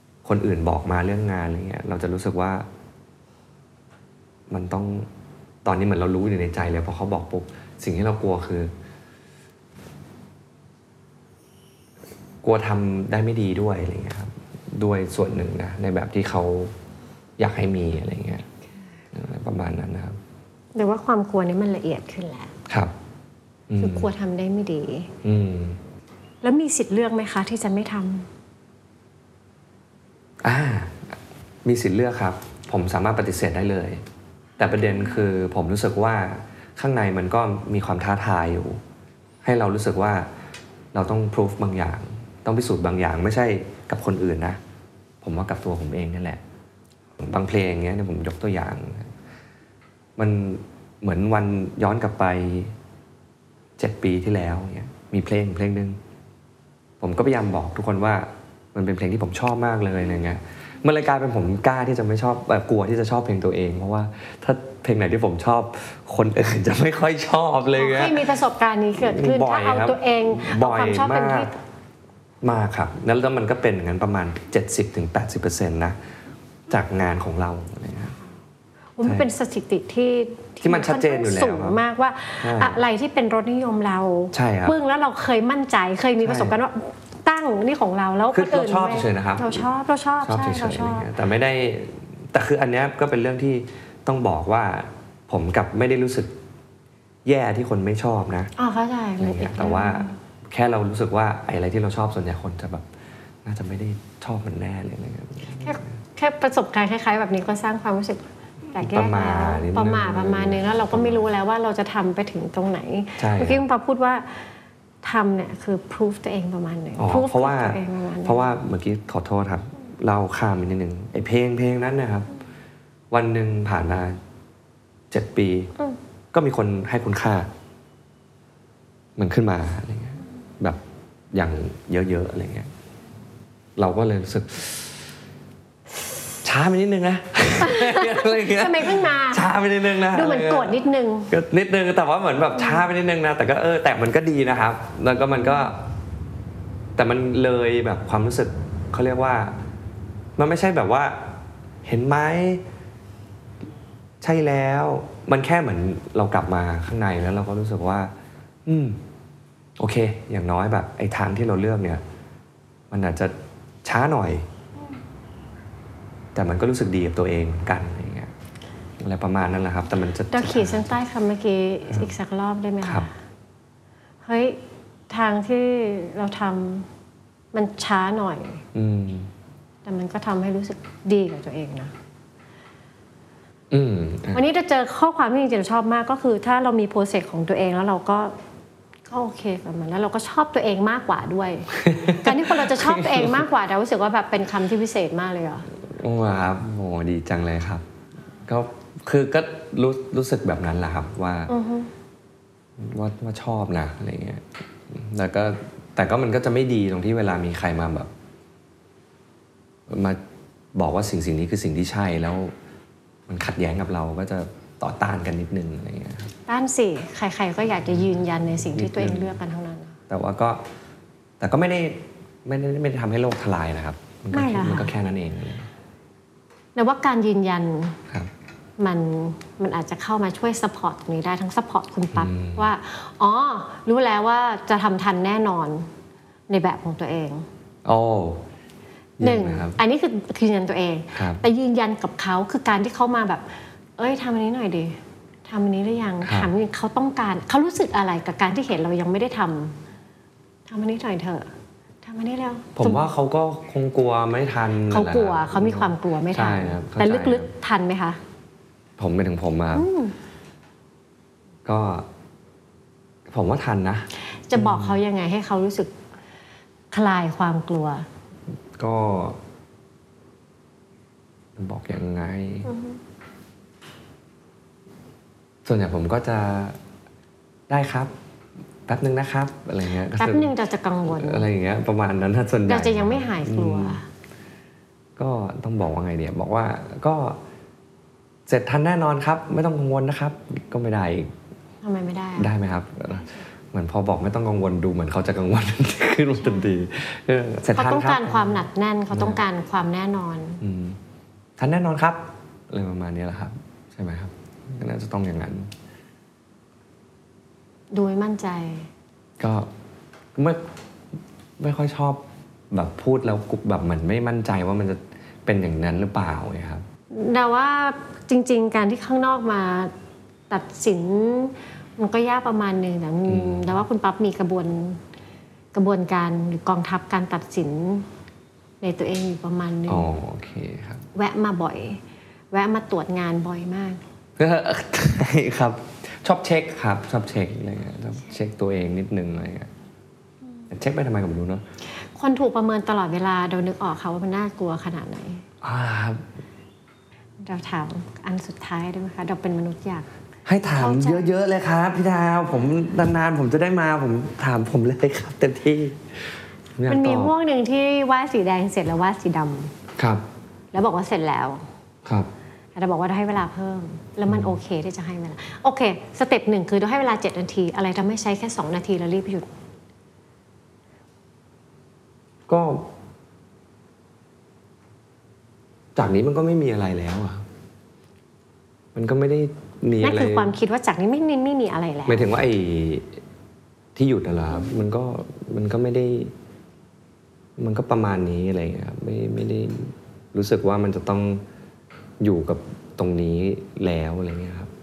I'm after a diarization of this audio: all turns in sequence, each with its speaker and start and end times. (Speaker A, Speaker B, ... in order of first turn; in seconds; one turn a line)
Speaker A: 0.2-2.7
Speaker A: 4.5-5.1
Speaker A: 5.6-8.7
Speaker A: 12.4-16.7
Speaker A: 17.4-18.5
Speaker A: 19.1-20.2
Speaker B: 20.7-22.5
Speaker A: 23.7-24.1
Speaker B: 23.8-25.1
Speaker A: 25.2-25.8
Speaker B: 26.4-28.3
Speaker A: 30.4-34.0
Speaker A: 34.6-38.8
Speaker A: 39.4-40.3
Speaker A: 40.9-44.6
Speaker A: 45.2-46.4
Speaker A: 47.2-49.1
Speaker A: 50.2-52.8
Speaker A: 53.8-56.0
Speaker A: 57.0-68.3
Speaker B: 67.7-71.5
Speaker A: 69.0-71.5
Speaker A: 72.4-76.0
Speaker A: 76.7-78.2
Speaker B: 79.0-91.1
Speaker A: 79.0-79.3
Speaker A: 80.6-81.8
Speaker A: 82.4-82.8
Speaker A: 84.3-84.8
Speaker A: 86.2-86.5
Speaker A: 88.3-89.7
Speaker A: 90.2-96.3
Speaker A: 97.2-98.5
Speaker B: 98.6-100.2
Speaker A: 99.2-102.9
Speaker A: 103.4-106.0
Speaker B: 105.6-118.5
Speaker A: 108.8-111.2
Speaker A: 113.2-113.6
Speaker A: 117.0-122.3
Speaker A: 123.1-124.2
Speaker A: 125.1-125.7
Speaker A: 126.3-127.5
Speaker A: 129.2-130.8
Speaker A: 131.3-132.7
Speaker A: 133.8-135.0
Speaker A: 136.4-140.8
Speaker B: 137.6-141.3
Speaker A: 141.3-145.8
Speaker A: 146.9-149.6
Speaker A: 150.4-151.2
Speaker A: 151.8-152.6
Speaker A: 154.2-158.1
Speaker A: 158.7-159.0
Speaker A: 159.8-162.0
Speaker A: 162.9-164.5
Speaker A: 166.3-168.3
Speaker A: 169.0-170.9
Speaker B: 170.3-173.1
Speaker A: 172.8-173.1
Speaker B: 174.2-176.9
Speaker B: 177.5-178.6
Speaker A: 178.7-179.3
Speaker B: 179.8-181.9
Speaker A: 183.7-184.4
Speaker B: 184.3-188.3
Speaker B: 189.1-195.7
Speaker A: 191.7-193.4
Speaker A: 195.9-197.8
Speaker A: 198.5-201.5
Speaker B: 201.5-201.9
Speaker A: 202.8-208.1
Speaker A: 209.9-210.2
Speaker A: 210.8-212.5
Speaker A: 213.3-216.3
Speaker B: 216.5-220.0
Speaker A: 218.6-219.3
Speaker A: 220.1-220.6
Speaker A: 221.4-225.7
Speaker B: 224.3-224.9
Speaker B: 226.7-228.0
Speaker B: 228.8-235.9
Speaker A: 232.1-232.7
Speaker B: 236.5-237.5
Speaker A: 237.8-238.4
Speaker A: 239.2-239.8
Speaker B: 239.2-249.8
Speaker A: 241.1-241.4
Speaker A: 246.2-246.5
Speaker B: 250.7-253.1
Speaker A: 252.8-257.5
Speaker B: 254.9-258.2
Speaker A: 259.0-259.9
Speaker B: 259.7-260.1
Speaker A: 261.6-262.1
Speaker A: 263.3-265.0
Speaker B: 264.5-265.9
Speaker B: 266.9-268.1
Speaker A: 268.8-269.4
Speaker A: 271.6-272.7
Speaker B: 272.6-273.0
Speaker A: 275.6-276.8
Speaker A: 277.7-278.1
Speaker A: 278.9-280.5
Speaker B: 280.1-281.5
Speaker A: 281.1-284.0
Speaker B: 282.6-284.1
Speaker A: 285.2-287.4
Speaker A: 288.5-291.3
Speaker B: 291.8-292.5
Speaker A: 292.4-298.4
Speaker B: 296.4-296.8
Speaker B: 297.7-300.6
Speaker A: 299.1-299.4
Speaker A: 300.6-301.0
Speaker A: 301.6-305.7
Speaker B: 307.9-308.9
Speaker A: 309.4-309.7
Speaker A: 310.4-310.6
Speaker A: 311.6-316.8
Speaker B: 317.1-319.9
Speaker B: 320.5-325.0
Speaker A: 323.3-323.8
Speaker B: 325.7-328.1
Speaker B: 328.8-330.1
Speaker A: 329.9-331.0
Speaker B: 331.1-334.0
Speaker A: 334.4-339.7
Speaker A: 340.7-341.6
Speaker B: 342.0-345.4
Speaker A: 345.6-346.2
Speaker B: 347.4-350.1
Speaker A: 350.4-357.3
Speaker B: 350.7-351.3
Speaker B: 356.9-359.7
Speaker A: 360.0-360.2
Speaker B: 360.7-361.7
Speaker B: 362.7-369.5
Speaker A: 372.5-372.9
Speaker A: 375.9-377.4
Speaker A: 378.9-380.5
Speaker B: 380.0-382.3
Speaker A: 382.1-383.2
Speaker A: 383.9-386.3
Speaker A: 387.6-391.4
Speaker A: 392.2-394.7